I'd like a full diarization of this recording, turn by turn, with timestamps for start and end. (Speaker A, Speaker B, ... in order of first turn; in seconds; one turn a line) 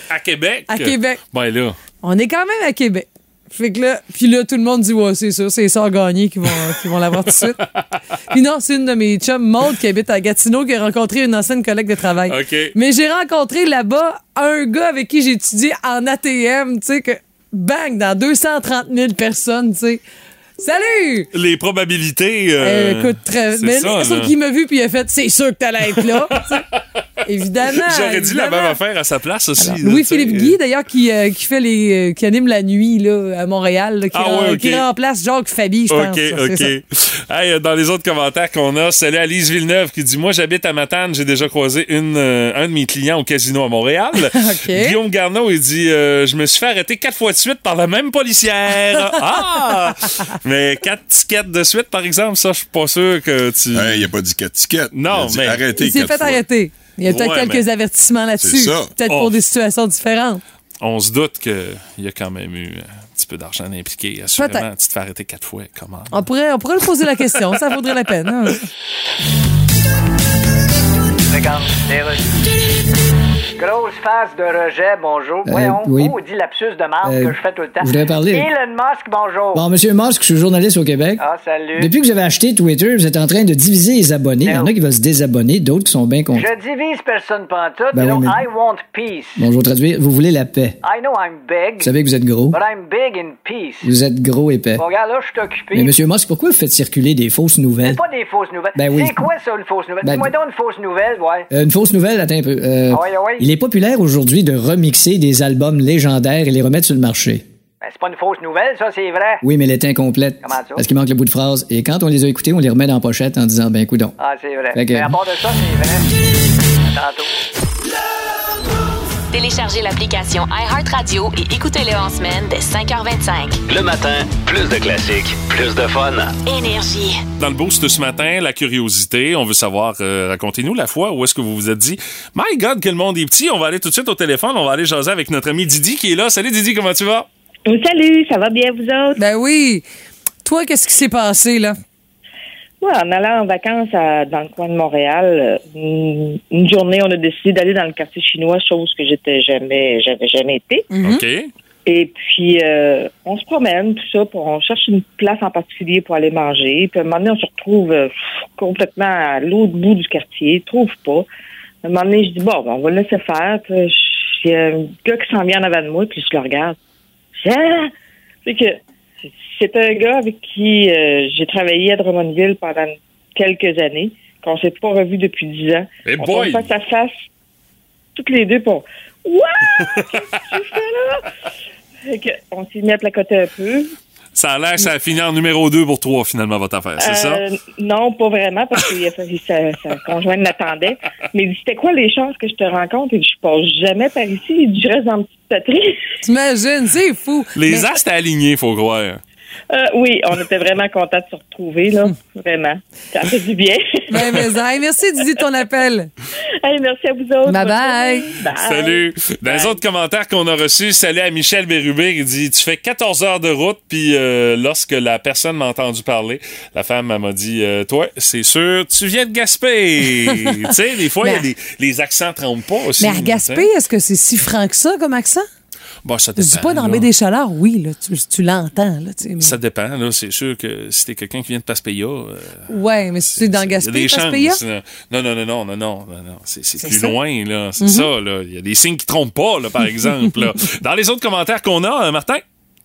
Speaker A: 0.1-1.8
Speaker B: 0.7-1.2
Speaker B: 2.0-7.6
Speaker B: 8.3-20.0
Speaker A: 12.3-12.8
Speaker B: 20.6-21.3
Speaker A: 21.3-24.3
Speaker B: 22.6-26.4
Speaker A: 26.0-26.6
Speaker B: 27.2-28.8
Speaker A: 27.8-30.6
Speaker B: 29.6-36.7
Speaker A: 34.1-34.9
Speaker A: 35.9-54.0
Speaker B: 44.4-45.0
Speaker C: 53.7-56.4
Speaker A: 54.9-55.6
Speaker B: 55.8-60.4
Speaker A: 57.0-57.7
Speaker C: 58.4-58.9
Speaker A: 59.1-59.4
Speaker A: 60.8-66.2
Speaker B: 64.4-64.7
Speaker B: 66.1-68.7
Speaker D: 71.3-72.2
Speaker D: 73.6-79.7
Speaker E: 75.5-76.1
Speaker E: 77.0-78.5
Speaker E: 79.5-81.2
Speaker D: 81.2-81.9
Speaker E: 81.8-86.5
Speaker D: 84.4-84.8
Speaker D: 86.3-89.4
Speaker E: 87.9-88.4
Speaker E: 89.4-90.8
Speaker D: 90.8-91.9
Speaker E: 91.8-92.6
Speaker D: 92.5-93.9
Speaker E: 93.8-94.8
Speaker D: 94.8-95.9
Speaker E: 95.7-98.0
Speaker D: 97.8-101.5
Speaker E: 98.8-99.2
Speaker E: 100.0-100.3
Speaker E: 101.5-107.4
Speaker D: 102.9-103.5
Speaker D: 107.8-109.4
Speaker E: 109.4-114.2
Speaker D: 110.4-110.8
Speaker D: 114.2-116.0
Speaker E: 114.7-115.1
Speaker D: 116.9-117.3
Speaker F: 119.3-123.6
Speaker G: 123.7-126.4
Speaker F: 126.4-127.2
Speaker A: 127.4-137.3
Speaker H: 137.7-139.2
Speaker B: 139.2-139.8
Speaker B: 140.4-141.8
Speaker H: 142.8-150.9
Speaker B: 150.9-151.2
Speaker A: 151.0-151.5
Speaker H: 151.9-161.3
Speaker H: 161.8-166.8
Speaker H: 167.4-167.9
Speaker H: 168.4-177.2
Speaker A: 176.1-176.7
Speaker H: 178.2-181.2
Speaker H: 182.1-183.9
Speaker A: 184.4-187.4
Speaker H: 187.0-196.0
Speaker B: 196.2-197.9
Speaker A: 197.6-199.2
Speaker H: 199.7-204.4
Speaker B: 204.1-206.1
Speaker H: 206.6-209.8
Speaker B: 207.5-208.3
Speaker A: 208.6-223.7
Speaker B: 223.0-225.5
Speaker A: 226.0-227.1
Speaker B: 226.4-229.5
Speaker A: 229.4-232.7
Speaker B: 232.7-234.6
Speaker A: 233.3-242.4
Speaker B: 236.8-237.2
Speaker B: 237.8-238.1